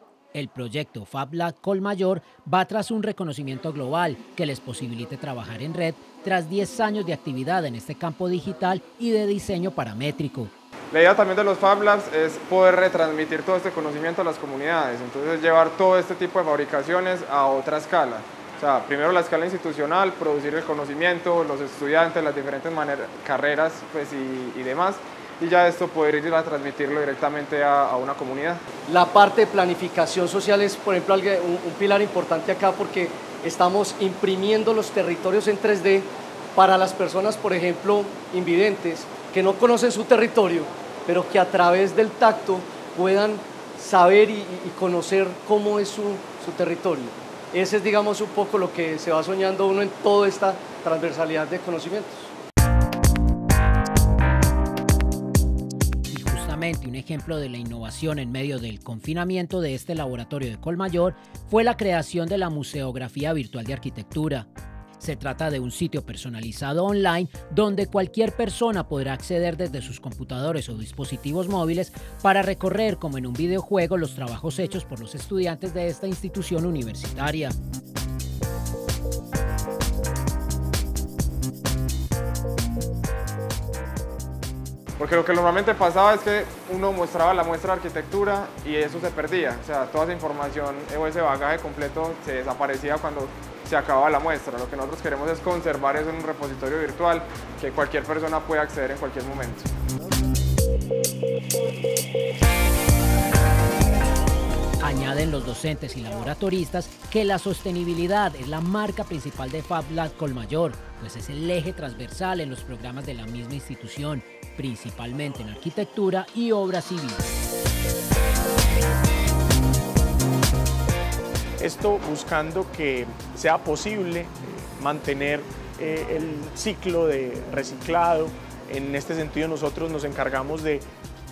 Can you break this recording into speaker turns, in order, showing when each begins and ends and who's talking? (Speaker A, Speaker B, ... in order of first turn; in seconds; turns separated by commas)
Speaker A: 0.3-10.5, Speaker B: 10.9-28.6, Speaker C: 28.9-52.3, Speaker A: 56.1-64.5, Speaker A: 65.0-77.5, Speaker B: 85.0-99.7, Speaker A: 104.8-117.3, Speaker D: 121.6-130.8